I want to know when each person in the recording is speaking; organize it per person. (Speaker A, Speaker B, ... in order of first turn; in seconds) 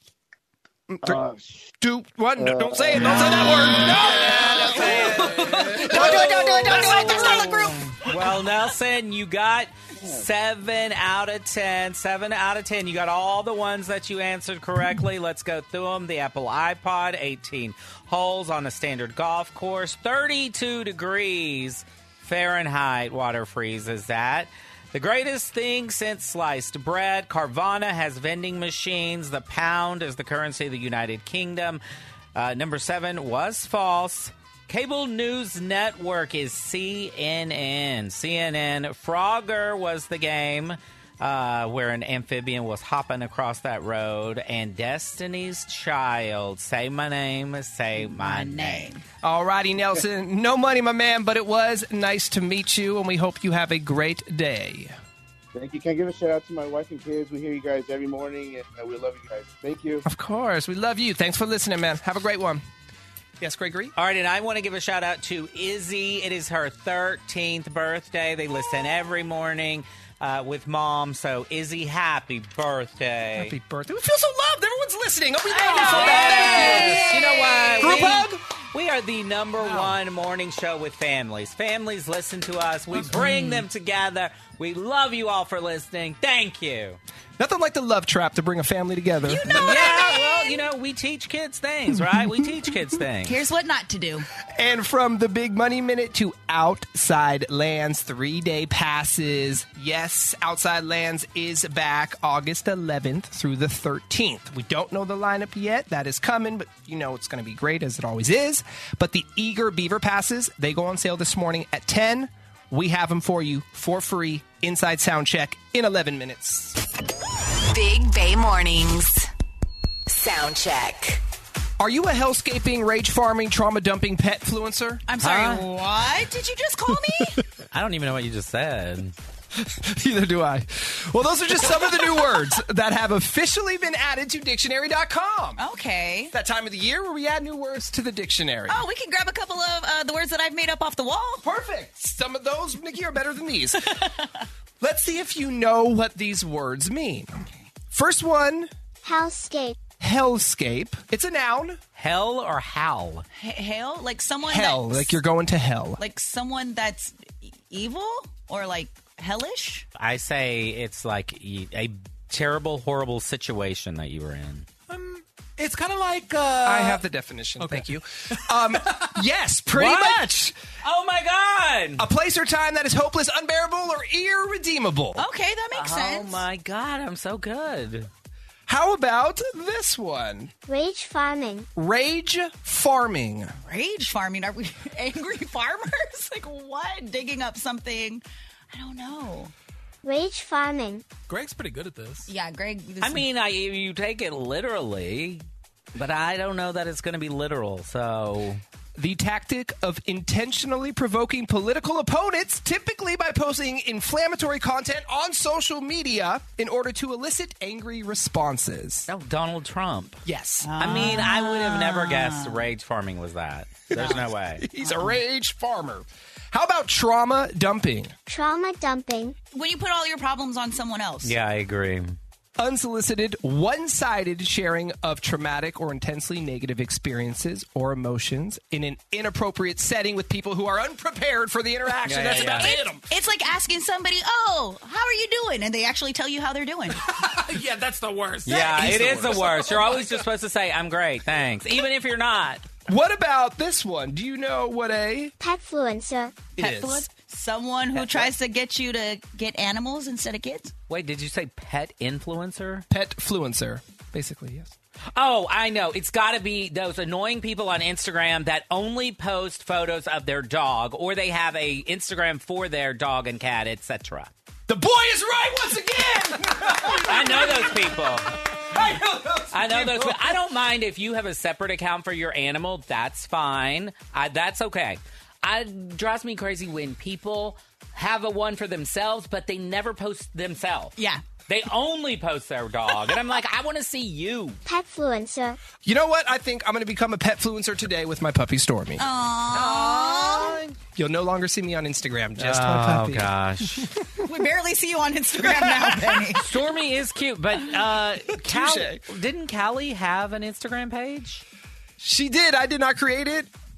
Speaker A: 0.9-1.2, 1.8-7.7, 49.2-55.0, 60.0-62.6, 63.4-63.9, 73.3-77.1, 77.8-78.4, 87.4-89.8, 94.5-116.8, 121.8-125.0, 129.6-135.6, 136.3-138.8, 141.4-143.9, 144.8-148.7, 150.0-151.8, 154.5-156.0, 166.6-170.5, 172.0-175.2, 178.7-180.5, 181.7-183.5, 198.9-209.1, 210.2-210.7, 213.9-218.1, 222.6-233.0, 242.9-245.3, 246.6-247.1, 252.9-254.7, 264.7-267.7, 268.7-269.9, 285.8-289.0, 290.9-293.8, 295.4-296.1, 298.4-299.0, 302.0-303.5
Speaker B: 1.0-1.7, 2.4-3.1, 9.9-10.2, 55.5-60.0
Speaker C: 4.0-31.8, 32.3-48.9, 63.9-73.5, 75.8-87.0, 89.5-93.4, 125.2-125.7, 127.7-129.1, 151.9-153.2, 160.0-164.7, 169.7-170.2, 170.8-172.1, 175.7-178.1, 193.0-195.4, 195.9-198.6, 209.1-210.2, 210.8-214.6, 221.2-222.2, 232.1-232.7, 238.4-242.7, 247.9-248.3, 250.9-252.8, 255.2-264.3, 267.0-268.4, 269.5-281.0, 281.5-284.6, 289.5-290.8, 292.4-293.9, 296.3-301.4
Speaker D: 4.2-7.9, 48.0-49.0, 75.5-78.0, 83.0-83.6, 89.2-90.6, 93.2-94.3, 125.1-127.4, 135.6-136.3, 138.7-141.4, 153.3-155.2, 156.0-159.8, 175.2-176.4, 183.6-189.5, 192.3-193.2, 210.6-212.7, 213.9-215.2, 219.5-221.3, 232.3-237.0, 246.6-250.7, 281.0-281.2, 289.0-290.6, 294.2-296.5
Speaker E: 75.8-77.1, 79.6-80.0, 164.9-167.0, 167.6-169.1, 191.3-192.3, 237.0-240.3, 266.6-267.5
Speaker F: 117.7-119.3, 120.1-121.2
Speaker G: 149.0-149.8, 180.7-181.7, 190.0-191.1, 218.3-219.3, 245.4-246.5, 284.6-285.6